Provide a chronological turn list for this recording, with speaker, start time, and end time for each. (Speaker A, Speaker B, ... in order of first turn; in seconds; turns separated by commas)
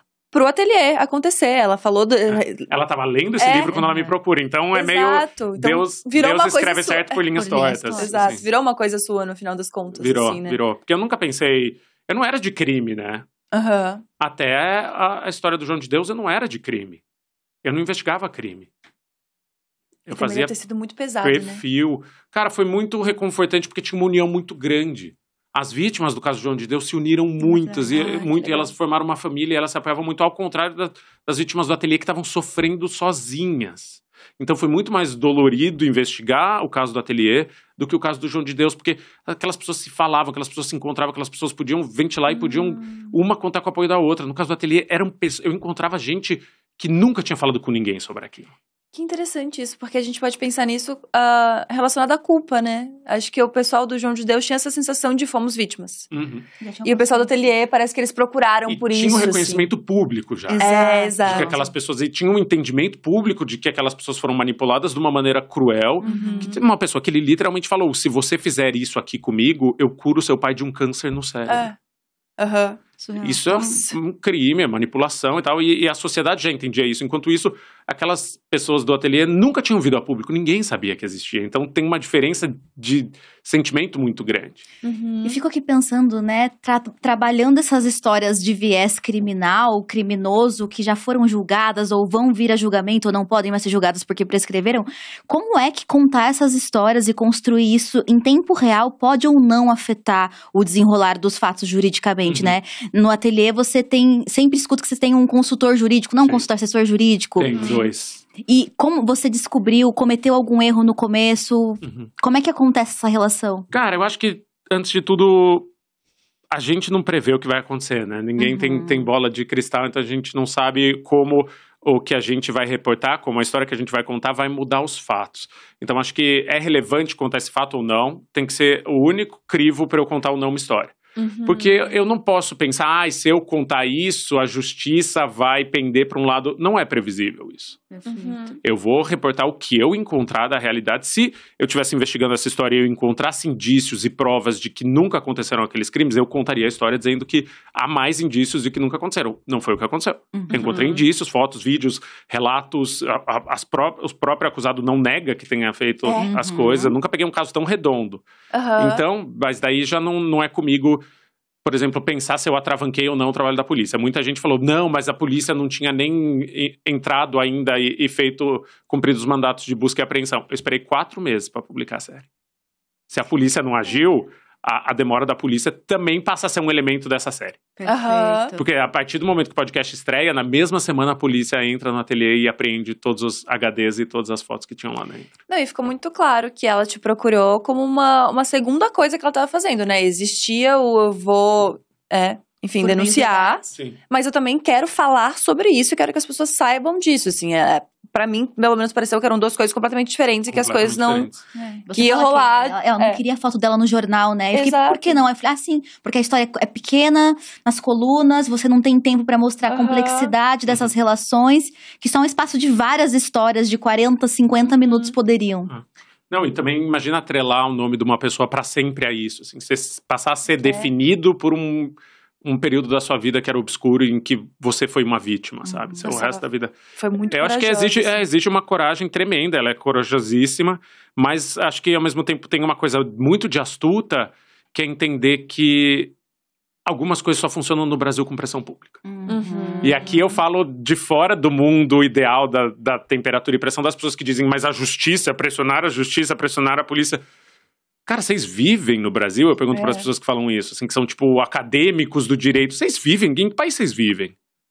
Speaker A: 0.3-2.7, Speaker B: 2.3-8.4, Speaker A: 3.4-3.9, Speaker C: 3.7-4.1, Speaker A: 4.7-7.2, Speaker C: 7.3-8.2, Speaker A: 8.0-10.6, Speaker B: 10.0-13.3, Speaker A: 13.5-14.0, Speaker B: 14.2-17.0, Speaker B: 17.6-18.7, Speaker B: 20.1-20.5, Speaker A: 20.1-21.6, Speaker B: 21.2-48.5, Speaker C: 27.4-28.7, Speaker A: 42.3-43.1, Speaker A: 48.9-56.1, Speaker B: 56.1-56.4, Speaker C: 56.6-57.3, Speaker A: 56.8-59.6, Speaker B: 58.7-60.7, Speaker C: 60.5-61.7, Speaker A: 60.6-61.5, Speaker B: 61.2-71.7, Speaker C: 66.0-66.6, Speaker A: 66.0-66.6, Speaker A: 71.5-71.8, Speaker A: 72.4-72.8, Speaker C: 73.0-73.5, Speaker B: 73.2-84.6, Speaker A: 73.5-74.0, Speaker A: 84.8-85.4, Speaker C: 85.2-107.8, Speaker B: 102.2-102.5, Speaker B: 107.4-108.2, Speaker A: 107.5-107.9, Speaker C: 108.4-113.7, Speaker B: 111.8-112.1, Speaker B: 113.7-115.7, Speaker B: 116.5-137.8, Speaker C: 118.4-119.1, Speaker A: 131.2-131.9, Speaker C: 137.9-138.6, Speaker A: 138.1-138.6, Speaker B: 138.6-158.2, Speaker C: 150.3-150.6, Speaker A: 150.5-151.0, Speaker C: 156.1-157.0, Speaker A: 158.5-159.0, Speaker B: 158.8-161.0, Speaker B: 161.6-172.2, Speaker B: 173.1-177.7, Speaker C: 177.8-178.6, Speaker A: 177.8-178.5, Speaker B: 178.6-185.3, Speaker A: 185.5-203.2, Speaker C: 192.8-193.6, Speaker B: 200.5-201.4, Speaker C: 201.9-215.7, Speaker A: 204.5-205.2, Speaker A: 209.7-210.3, Speaker A: 214.8-215.1, Speaker B: 215.7-236.1, Speaker A: 220.6-220.9, Speaker C: 225.6-226.1, Speaker A: 226.0-226.4, Speaker A: 226.9-228.2, Speaker B: 236.8-239.0, Speaker C: 239.0-240.1, Speaker A: 239.3-240.2, Speaker B: 239.8-247.2, Speaker B: 248.1-254.3, Speaker A: 249.7-250.0